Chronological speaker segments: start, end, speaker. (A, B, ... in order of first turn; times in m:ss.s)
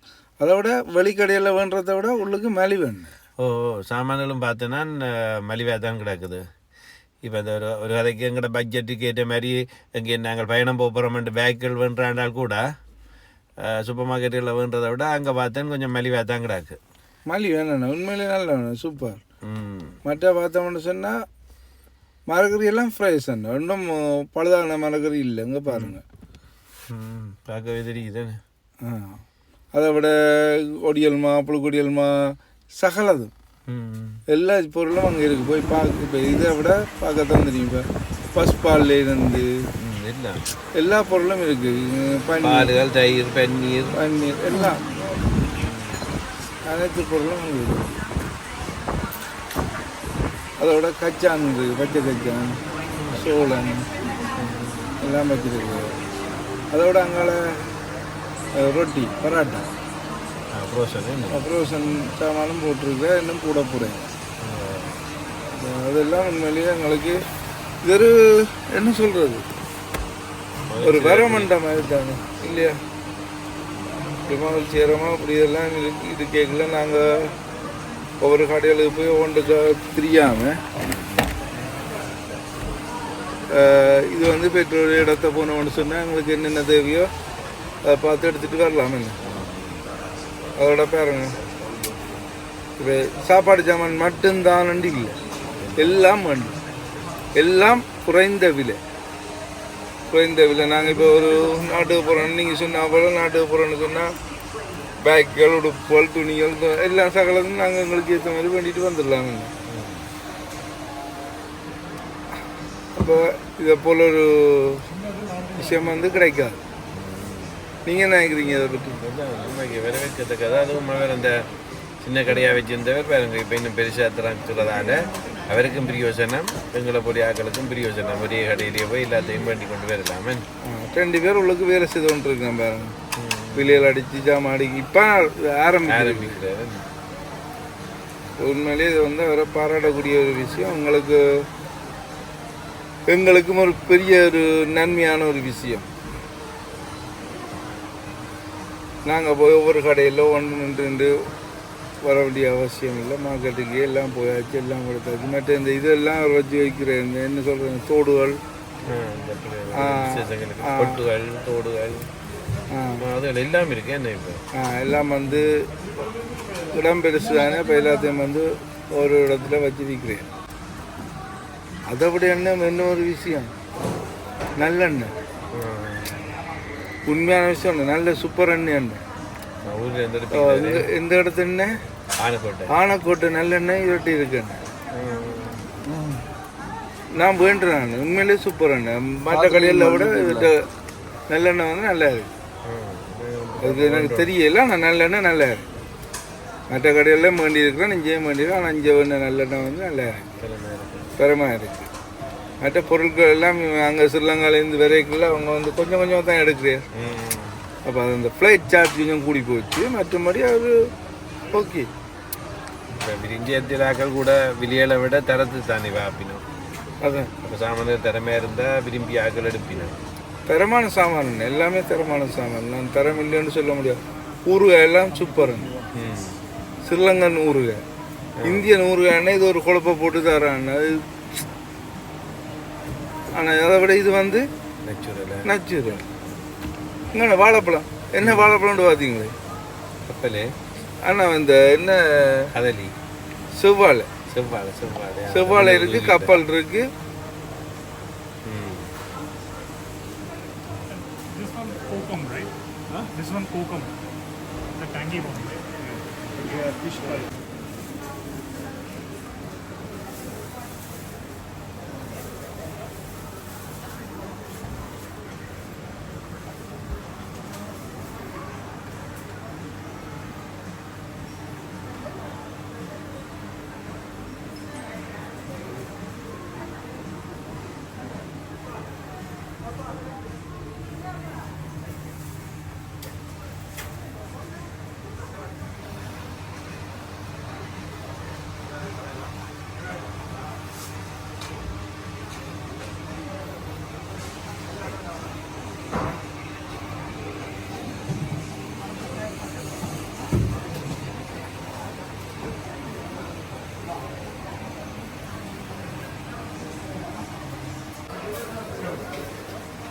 0:00.4-0:03.1 A
0:03.4-0:06.4 B
0:07.2-0:12.6 B
0:13.6-0:16.8 B
0:17.3-0:19.2 A
0:19.4-0:20.0 B
0:20.0-0:21.2 A
0:22.3-0:26.0 A
0:25.7-0:26.0 B
0:26.9-0:28.4 B
0:28.8-0:29.2 A
0:29.7-0:33.3 A
0:33.7-0:34.2 B
0:34.3-0:39.5 A
0:39.8-0:40.4 B
0:40.8-0:42.7 A
0:42.4-0:43.9 B
0:43.9-0:44.8 A
0:45.6-0:46.0 B
0:46.7-0:47.9 A
0:50.6-0:52.6 A
0:53.2-0:53.8 A
0:54.4-0:54.9 B
0:55.0-0:55.9 A
0:56.7-0:57.4 A
0:58.6-0:59.7 A
1:00.5-1:01.5 B
1:01.3-1:04.0 A
1:04.4-1:05.0 B
1:05.6-1:07.2 A
1:07.8-1:09.4 A
1:10.7-1:11.5 B
1:10.8-1:12.8 A
1:14.3-1:17.3 A
1:18.2-1:20.6 A
1:20.8-1:21.3 B
1:23.5-1:27.1 A
1:27.8-1:29.2 A
1:29.2-1:29.8 B
1:30.6-1:31.3 A
1:32.8-1:35.2 A
1:35.6-1:36.0 B
1:35.8-1:36.5 A
1:37.3-1:38.8 A
1:40.1-1:44.1 A
1:45.0-1:49.5 A
1:49.7-1:50.0 B
1:53.0-1:54.8 A
1:55.6-1:56.6 A
1:56.9-1:57.6 B
1:57.8-1:59.0 A
1:59.0-2:01.4 B
2:02.0-2:10.4 B
2:10.6-2:13.0 A
2:13.2-2:13.9 B
2:13.6-2:16.4 A
2:15.9-2:16.8 B
2:18.4-2:21.2 A
2:23.1-2:25.9 A
2:29.0-2:31.2 A
2:32.0-2:38.4 A
2:38.8-2:42.1 B
2:39.7-2:41.0 A
2:42.7-2:43.0 A
2:43.0-2:44.4 B
2:44.5-2:45.7 A
2:46.7-2:50.2 A
2:51.9-2:53.5 A
2:54.6-2:55.1 A
2:55.5-2:56.2 B
2:57.1-2:59.0 A
2:59.6-3:00.9 B
3:00.3-3:01.7 A
3:02.2-3:02.7 B
3:02.7-3:04.6 A
3:04.9-3:05.7 B
3:05.8-3:06.2 A
3:07.2-3:10.6 A
3:09.3-3:10.5 B
3:11.3-3:12.3 A
3:12.6-3:14.3 B
3:13.6-3:15.7 A
3:16.7-3:20.3 A
3:20.4-3:21.1 B
3:21.2-3:21.9 A
3:22.6-3:26.8 A
3:26.9-3:27.6 B
3:27.8-3:30.8 A
3:31.5-3:31.9 A
3:33.0-3:36.4 B
3:37.0-3:37.3 A
3:37.4-3:40.0 B
3:40.5-3:45.7 A
3:45.9-3:46.4 B
3:46.8-3:47.8 A
3:48.4-3:48.7 B
3:48.4-3:51.0 A
3:53.3-3:54.5 A
3:54.8-3:55.5 B
3:55.5-3:56.0 A
3:57.1-3:59.3 A
3:58.2-3:58.5 B
4:00.0-4:00.5 B
4:01.0-4:02.5 A
4:02.5-4:02.9 B
4:03.5-4:04.1 A
4:04.3-4:06.4 B
4:05.3-4:06.9 A
4:08.5-4:08.9 B
4:11.1-4:13.9 C
4:14.8-4:17.3 C
5:08.8-5:09.1 C